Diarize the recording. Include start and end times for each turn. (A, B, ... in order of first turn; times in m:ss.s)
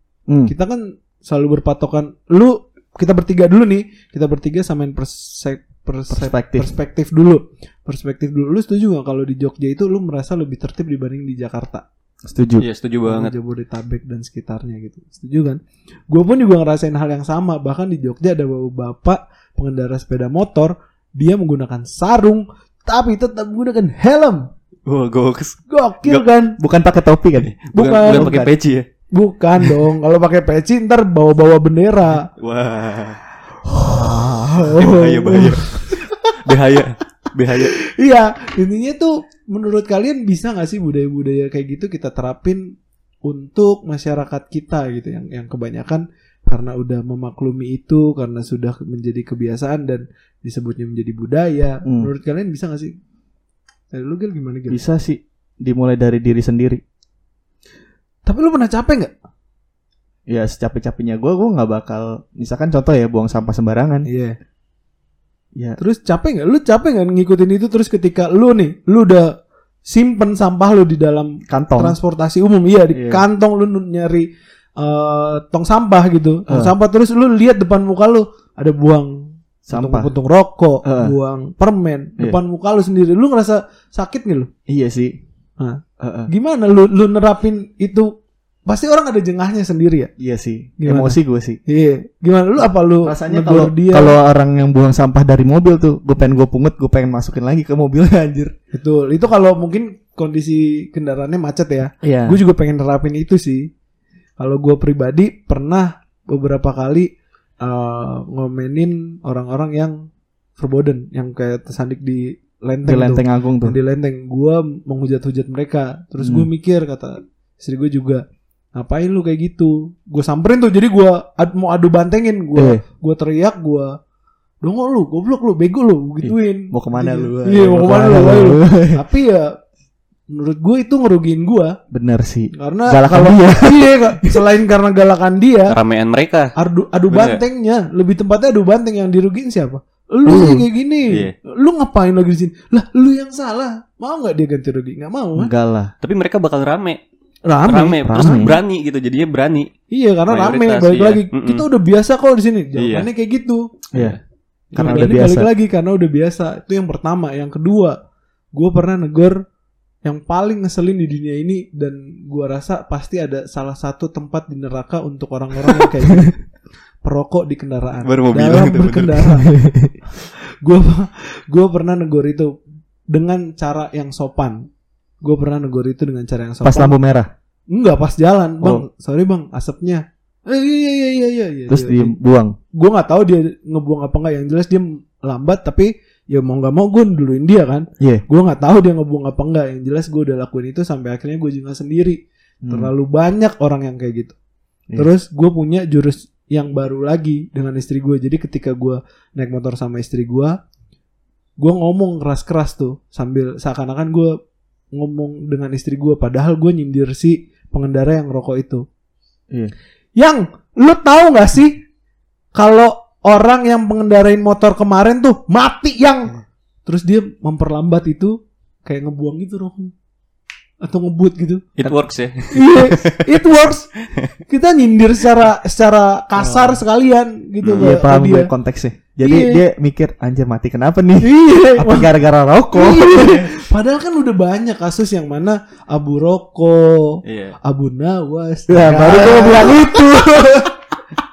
0:00.5-0:11.8 A
0:06.1-0:06.7 B
0:12.2-0:12.6 B
0:12.6-0:13.3 C
0:13.0-0:24.5 A
0:24.9-0:26.2 C
0:25.7-0:26.6 A
0:26.6-0:27.5 B
0:27.5-0:28.9 C
0:27.7-0:28.4 A
0:28.1-0:28.5 B
0:29.1-0:32.3 A
0:32.4-0:33.2 C
0:33.7-0:36.4 A
0:33.8-0:34.6 B
0:34.7-0:37.7 C
0:37.6-0:52.9 A
0:53.9-0:54.8 A
0:54.7-0:56.8 B
0:58.2-0:59.1 A
1:00.3-1:04.1 B
1:04.1-1:04.4 A
1:05.8-1:09.3 A
1:09.8-1:24.5 A
1:11.5-1:12.0 B
1:12.9-1:13.2 B
1:16.5-1:16.7 B
1:19.7-1:20.1 B
1:20.8-1:21.1 B
1:24.7-1:25.2 B
1:25.6-1:28.1 A
1:26.0-1:26.3 B
1:28.6-1:30.1 A
1:30.2-1:31.6 B
1:30.8-1:34.2 A
1:33.0-1:38.5 B
1:38.7-1:43.7 A
1:42.0-1:42.4 B
1:44.4-1:47.1 A
1:47.6-1:50.0 A
1:50.6-1:58.2 A
1:52.8-1:53.8 B
1:56.2-1:56.5 B
1:58.7-2:03.9 A
2:02.6-2:02.8 B
2:04.6-2:09.6 A
2:06.2-2:09.0 B
2:10.3-2:11.8 A
2:11.9-2:14.4 B
2:12.6-2:15.8 A
2:15.7-2:16.5 C
2:16.6-2:25.5 A
2:17.1-2:17.4 C
2:20.2-2:20.6 B
2:21.1-2:21.3 C
2:25.4-2:25.9 B
2:26.0-2:27.0 C
2:27.5-2:28.4 A
2:27.6-2:29.7 C
2:28.1-2:28.6 B
2:29.9-2:33.7 A
2:30.3-2:31.6 C
2:32.8-2:33.1 C
2:33.9-2:34.2 B
2:33.9-2:34.2 C
2:34.7-2:35.2 C
2:34.7-2:35.5 B
2:34.8-2:38.0 A
2:38.5-2:39.4 A
2:40.0-2:46.5 A
2:47.0-2:52.5 A
2:48.0-2:49.2 C
2:49.6-2:49.9 B
2:53.1-2:54.7 A
2:55.2-2:56.9 A
2:56.6-2:57.3 B
2:57.7-3:02.1 A
3:01.7-3:02.6 B
3:02.7-3:14.3 A
3:12.6-3:12.9 B
3:15.0-3:20.6 A
3:21.6-3:24.4 A
3:24.9-3:28.8 A
3:30.2-3:31.8 A
3:32.5-3:39.9 A
3:40.8-3:41.9 A
3:41.8-3:43.3 C
3:42.5-3:43.9 A
3:44.5-3:48.5 A
3:46.4-3:46.8 B
3:47.6-3:47.9 C
3:47.8-3:53.6 B
3:49.2-3:49.6 A
3:51.2-3:52.1 A
3:52.7-4:00.8 A
3:57.2-3:57.6 C
3:58.7-4:00.6 B